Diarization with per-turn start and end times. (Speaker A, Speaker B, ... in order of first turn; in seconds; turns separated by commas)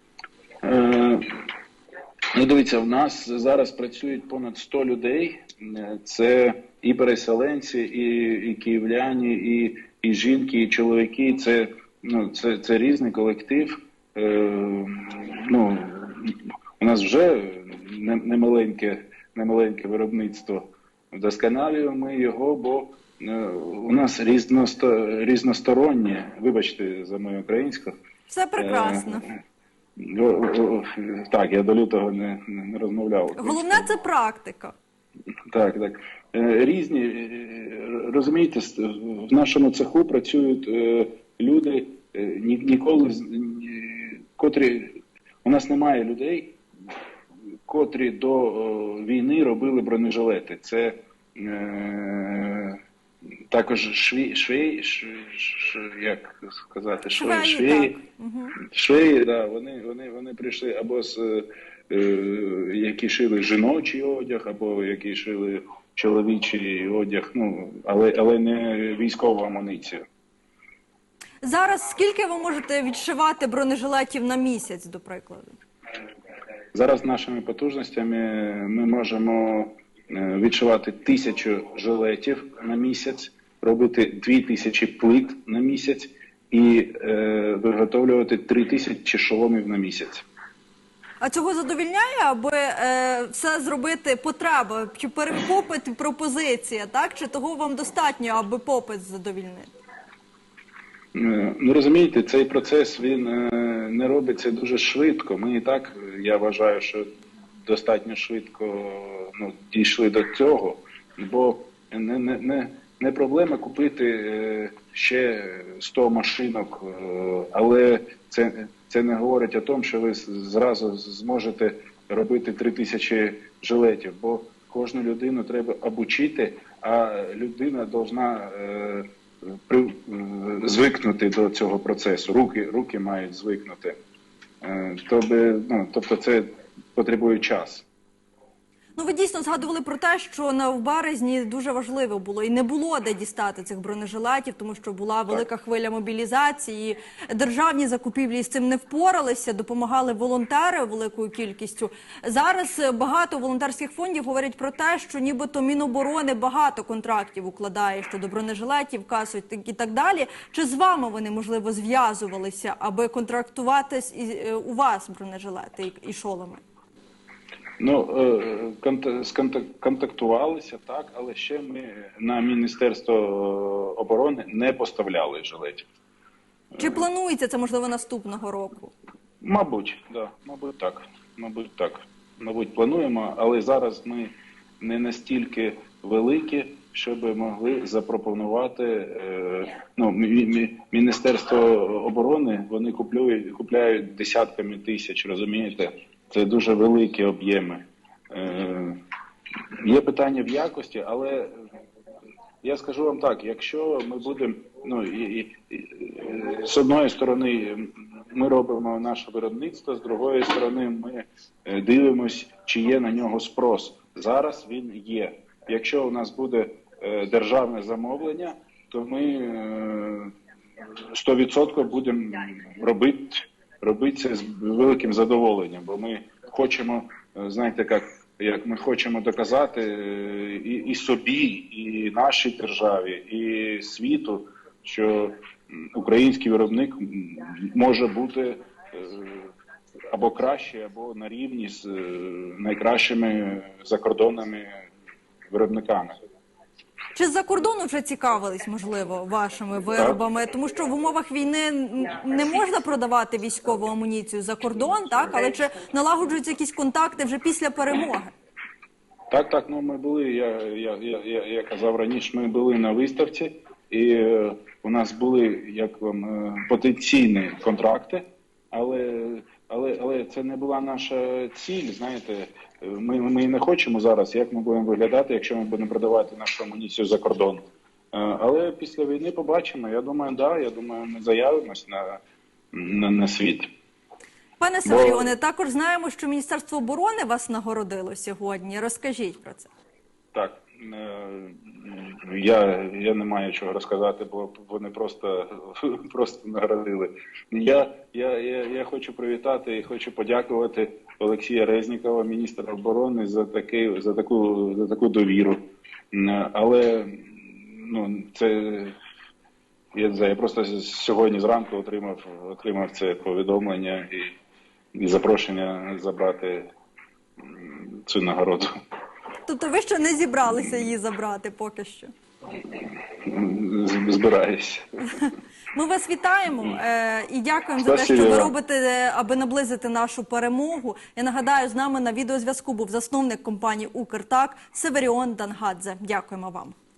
Speaker A: 0.6-1.2, Speaker A: 2.3-27.9, Speaker B: 28.3-29.2, Speaker A: 28.6-29.3, Speaker A: 30.0-33.9, Speaker B: 33.4-34.7, Speaker A: 35.5-46.6, Speaker A: 47.7-52.8, Speaker A: 53.5-58.0, Speaker B: 57.1-58.5, Speaker A: 58.7-70.0, Speaker B: 71.4-75.6, Speaker A: 76.7-90.2, Speaker B: 91.2-99.7, Speaker A: 101.1-107.0, Speaker A: 107.6-134.0, Speaker A: 134.6-137.8, Speaker B: 138.9-166.6, Speaker A: 167.8-175.8, Speaker B: 176.8-178.9, Speaker A: 179.4-198.9, Speaker A: 199.8-201.5, Speaker A: 202.6-220.3, Speaker A: 221.1-239.5, Speaker A: 240.1-244.9, Speaker A: 245.5-246.1, Speaker B: 247.1-258.3, Speaker A: 259.3-282.2, Speaker A: 282.7-283.7, Speaker B: 284.6-289.7, Speaker A: 284.8-285.3, Speaker A: 290.3-305.6, Speaker A: 306.1-308.9, Speaker A: 309.9-314.3, Speaker A: 314.9-316.7, Speaker A: 317.4-318.7, Speaker B: 319.4-322.1, Speaker A: 322.6-325.0, Speaker B: 325.2-336.7, Speaker A: 327.8-328.5